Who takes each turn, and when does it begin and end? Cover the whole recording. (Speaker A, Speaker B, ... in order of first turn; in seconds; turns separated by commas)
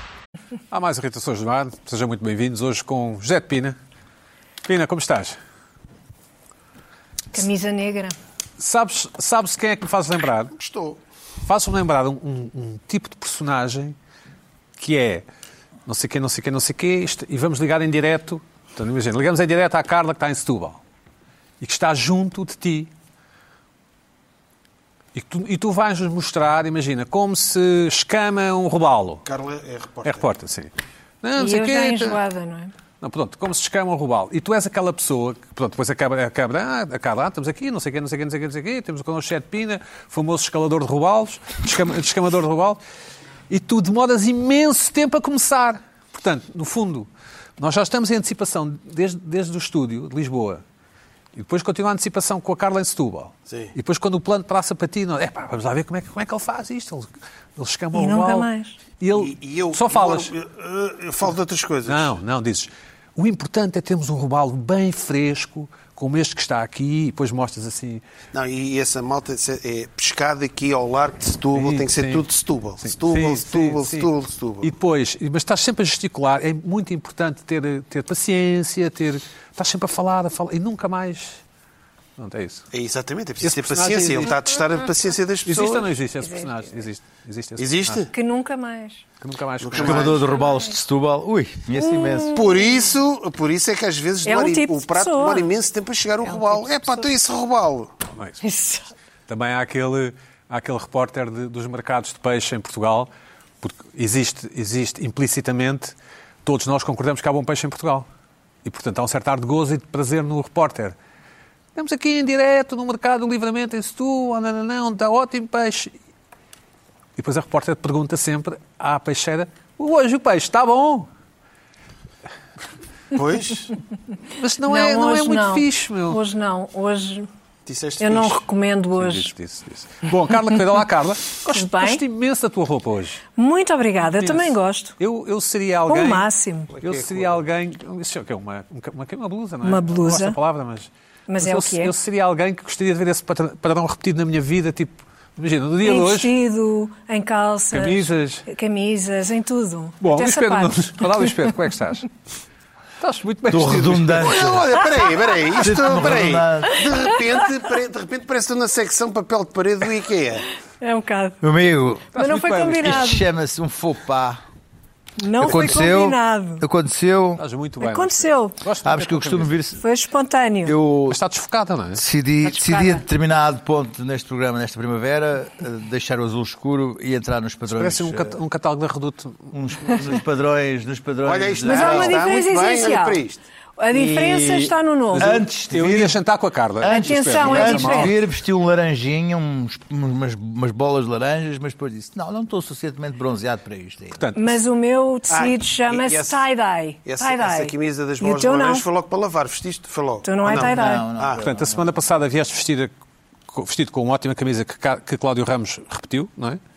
Speaker A: 0.7-3.8, Speaker A: 4.6-5.4, Speaker B: 7.3-8.1, Speaker A: 8.6-10.5, Speaker C: 10.5-11.0, Speaker A: 11.4-13.9, Speaker A: 14.8-15.2, Speaker A: 15.8-20.8, Speaker A: 21.6-22.9, Speaker A: 25.1-29.2, Speaker C: 29.2-30.3, Speaker A: 30.0-30.7, Speaker A: 31.2-32.2, Speaker B: 31.4-32.7, Speaker A: 33.0-42.8, Speaker A: 43.5-50.6, Speaker A: 51.3-58.5, Speaker B: 57.9-58.8, Speaker A: 59.0-60.3, Speaker C: 59.1-62.1, Speaker A: 61.9-68.0, Speaker C: 68.3-74.7, Speaker A: 71.5-72.2, Speaker A: 72.8-74.1, Speaker A: 74.6-81.4, Speaker A: 82.2-82.7, Speaker C: 82.7-85.9, Speaker A: 83.4-84.4, Speaker A: 85.4-88.0, Speaker C: 87.6-88.1, Speaker B: 88.1-89.0, Speaker A: 89.2-90.2, Speaker C: 89.6-90.3, Speaker D: 89.7-92.4, Speaker B: 90.2-90.7, Speaker B: 91.8-93.0, Speaker C: 92.3-97.9, Speaker B: 94.2-95.5, Speaker B: 96.2-97.0, Speaker A: 98.2-98.4, Speaker B: 98.4-98.9, Speaker A: 99.3-103.1, Speaker A: 103.6-105.9, Speaker A: 106.4-108.1, Speaker A: 108.6-110.9, Speaker A: 111.8-115.9, Speaker A: 117.2-121.1, Speaker C: 123.1-123.7, Speaker A: 124.4-126.2, Speaker B: 124.6-127.3, Speaker C: 127.7-128.4, Speaker B: 128.0-129.3, Speaker A: 128.9-133.2, Speaker B: 131.5-132.0, Speaker B: 133.3-134.9, Speaker A: 134.2-136.2, Speaker B: 135.9-136.7, Speaker C: 136.7-137.4, Speaker A: 136.8-146.3, Speaker B: 139.6-140.4, Speaker B: 141.3-141.9, Speaker B: 145.8-151.4, Speaker A: 147.7-148.4, Speaker A: 150.0-152.1, Speaker A: 153.0-154.4, Speaker D: 153.5-154.7, Speaker C: 154.2-160.5, Speaker D: 155.6-156.8, Speaker B: 160.8-161.4, Speaker D: 161.4-162.1, Speaker A: 162.1-163.1, Speaker B: 162.1-163.2, Speaker D: 162.8-164.4, Speaker B: 165.2-166.6, Speaker D: 165.4-167.4, Speaker A: 165.4-166.0, Speaker A: 167.4-169.5, Speaker B: 167.8-168.6, Speaker D: 168.8-169.8, Speaker B: 169.8-170.8, Speaker D: 170.6-171.2, Speaker A: 171.1-172.0, Speaker D: 171.9-178.4, Speaker B: 172.4-173.0, Speaker A: 177.7-179.5, Speaker D: 179.5-182.3, Speaker C: 181.2-183.4, Speaker B: 181.7-183.2, Speaker B: 183.8-185.4, Speaker D: 183.9-186.2, Speaker A: 185.1-188.2, Speaker D: 186.8-194.2, Speaker B: 186.8-188.2, Speaker A: 194.2-194.6, Speaker B: 194.3-198.8, Speaker C: 195.3-196.5, Speaker C: 197.0-201.4, Speaker B: 200.2-201.1, Speaker D: 200.4-201.9, Speaker A: 201.3-202.9, Speaker A: 203.5-206.6